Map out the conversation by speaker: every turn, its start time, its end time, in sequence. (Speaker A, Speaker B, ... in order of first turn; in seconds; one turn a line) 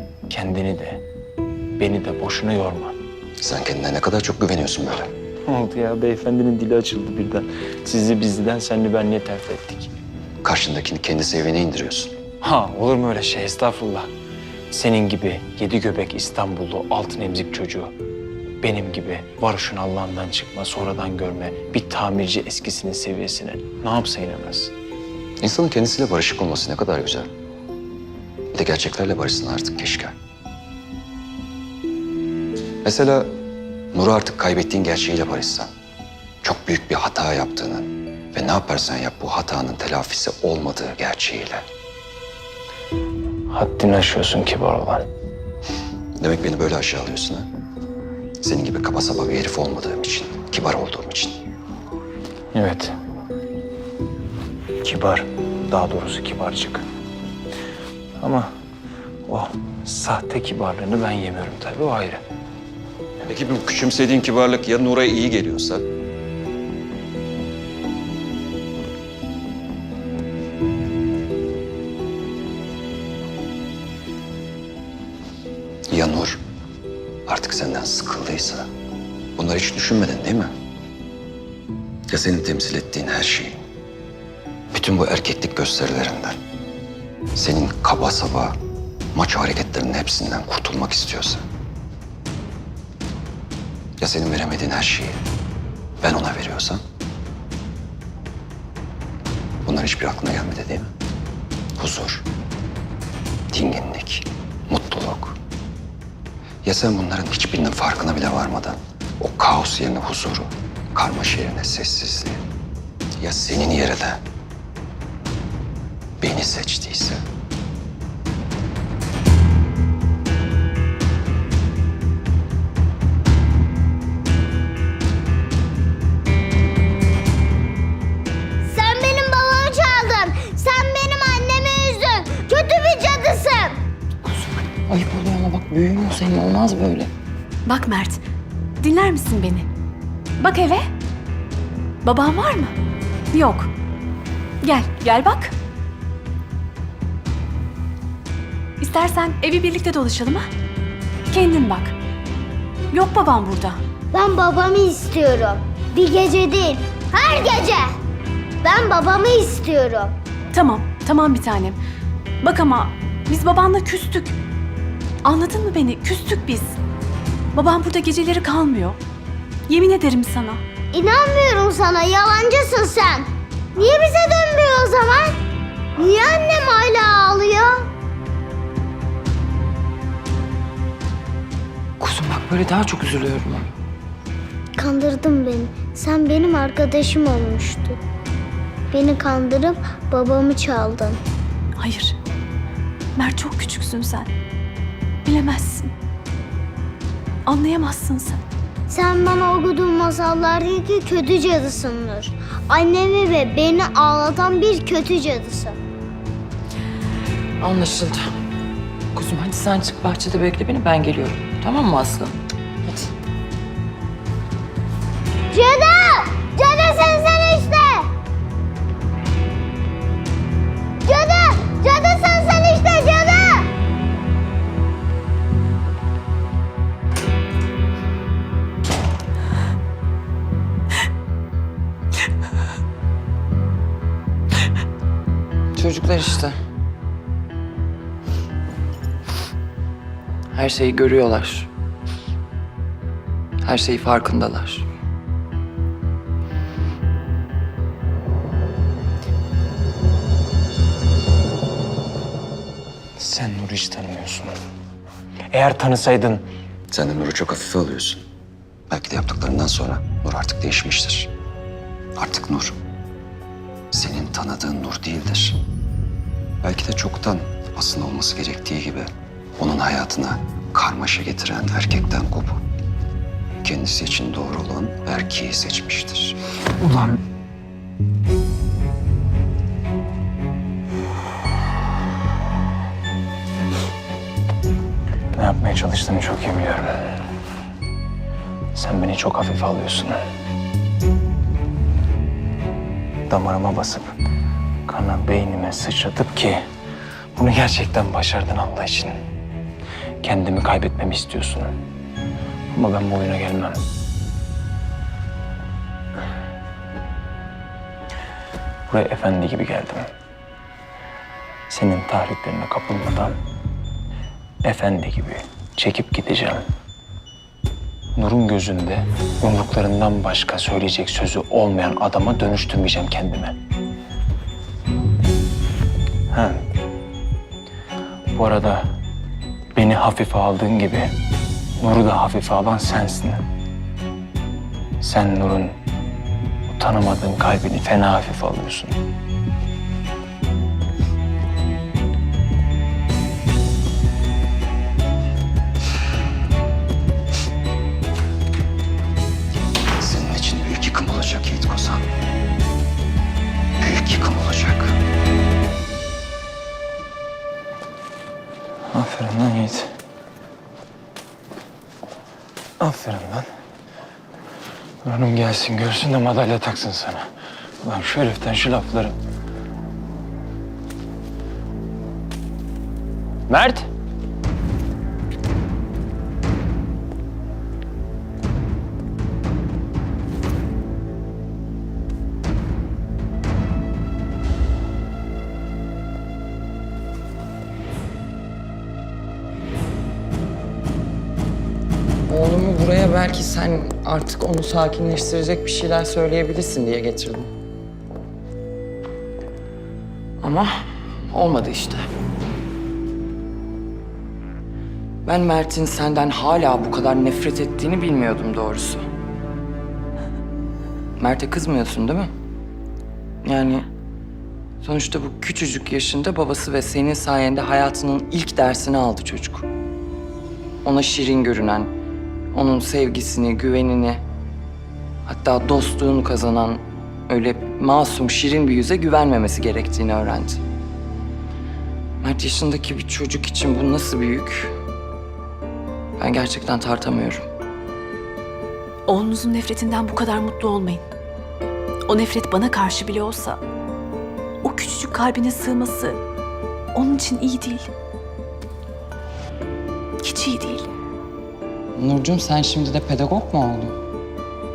Speaker A: 0.3-1.0
Speaker A: 1.8-2.9
Speaker B: 3.4-5.1
Speaker A: 5.5-9.9
Speaker B: 10.4-12.1
Speaker A: 12.4-14.1
Speaker A: 14.7-17.9
Speaker A: 18.6-24.7
Speaker B: 25.4-27.3
Speaker B: 28.5-30.1
Speaker B: 32.8-33.3
Speaker B: 33.9-35.7
Speaker B: 36.4-41.6
Speaker A: 43.5-45.0
Speaker B: 46.2-47.5
Speaker B: 48.4-51.4
Speaker A: 52.5-52.9
Speaker A: 54.8-56.8
Speaker A: 58.2-58.5
Speaker A: 59.3-62.2
Speaker B: 63.3-65.8
Speaker B: 75.9-76.4
Speaker B: 77.3-78.7
Speaker B: 79.4-80.5
Speaker B: 82.1-83.6
Speaker B: 84.7-86.4
Speaker B: 87.3-88.6
Speaker B: 89.2-91.4
Speaker B: 94.0-95.2
Speaker B: 96.0-96.8
Speaker B: 99.7-100.9
Speaker B: 101.8-102.3
Speaker B: 103.5-105.4
Speaker B: 106.6-112.4
Speaker B: 113.2-114.2
Speaker B: 116.2-117.2
Speaker C: 128.6-133.8
Speaker D: 134.3-137.1
Speaker E: 137.7-138.2
Speaker E: 138.8-139.7
Speaker E: 140.4-140.9
Speaker E: 142.0-142.8
Speaker E: 143.3-143.7
Speaker E: 144.6-145.5
Speaker E: 148.8-150.5
Speaker E: 151.3-151.9
Speaker E: 152.9-153.8
Speaker C: 154.1-158.0
Speaker C: 158.6-160.2
Speaker E: 160.5-161.8
Speaker E: 162.4-164.4
Speaker E: 165.2-166.8
Speaker E: 167.5-169.0
Speaker E: 169.7-170.6
Speaker C: 170.9-175.4
Speaker C: 176.0-177.9
Speaker D: 182.0-183.7
Speaker C: 184.8-188.0
Speaker C: 188.9-191.2
Speaker E: 191.8-192.2
Speaker E: 193.2-194.3
Speaker E: 195.2-195.9
Speaker E: 197.5-198.4
Speaker C: 198.9-205.8
Speaker D: 207.6-208.3
Speaker D: 209.2-213.1
Speaker C: 215.5-218.1
Speaker C: 221.1-223.7
Speaker D: 235.8-236.6
Speaker D: 240.5-241.7
Speaker D: 243.6-244.9
Speaker A: 253.2-254.5
Speaker A: 255.5-256.4
Speaker B: 256.9-258.2
Speaker B: 258.9-261.3
Speaker B: 262.2-262.8
Speaker B: 263.9-265.6
Speaker B: 266.6-272.6
Speaker B: 273.6-276.4
Speaker A: 276.8-277.2
Speaker A: 285.4-287.0
Speaker A: 288.7-290.2
Speaker A: 293.3-294.1
Speaker A: 294.9-296.6
Speaker A: 297.4-299.1
Speaker A: 300.2-301.7
Speaker A: 302.7-303.8
Speaker A: 308.9-310.1
Speaker A: 311.7-313.4
Speaker A: 314.6-316.6
Speaker A: 318.2-323.6
Speaker A: 326.3-326.6
Speaker A: 328.4-328.9
Speaker A: 329.8-331.1
Speaker A: 331.8-333.4
Speaker A: 335.0-335.8
Speaker A: 336.7-339.0
Speaker B: 350.0-352.1
Speaker B: 353.8-355.0
Speaker A: 358.9-359.9
Speaker A: 362.8-363.5
Speaker A: 365.0-367.3
Speaker A: 367.8-369.1
Speaker A: 373.5-373.9
Speaker D: 392.3-397.5
Speaker D: 400.4-400.7
Speaker D: 401.3-402.1
Speaker D: 405.2-409.0
Speaker D: 411.2-412.3
Speaker D: 413.4-413.9
Speaker D: 414.8-419.7
Speaker D: 420.8-421.9
Speaker D: 422.5-424.2
Speaker D: 425.3-430.6
Speaker D: 432.2-434.8
Speaker D: 436.2-437.4
Speaker E: 439.1-441.0
Speaker E: 442.1-443.6
Speaker E: 444.6-446.2
Speaker E: 446.9-447.9
Speaker E: 450.2-450.9
Speaker D: 452.0-454.0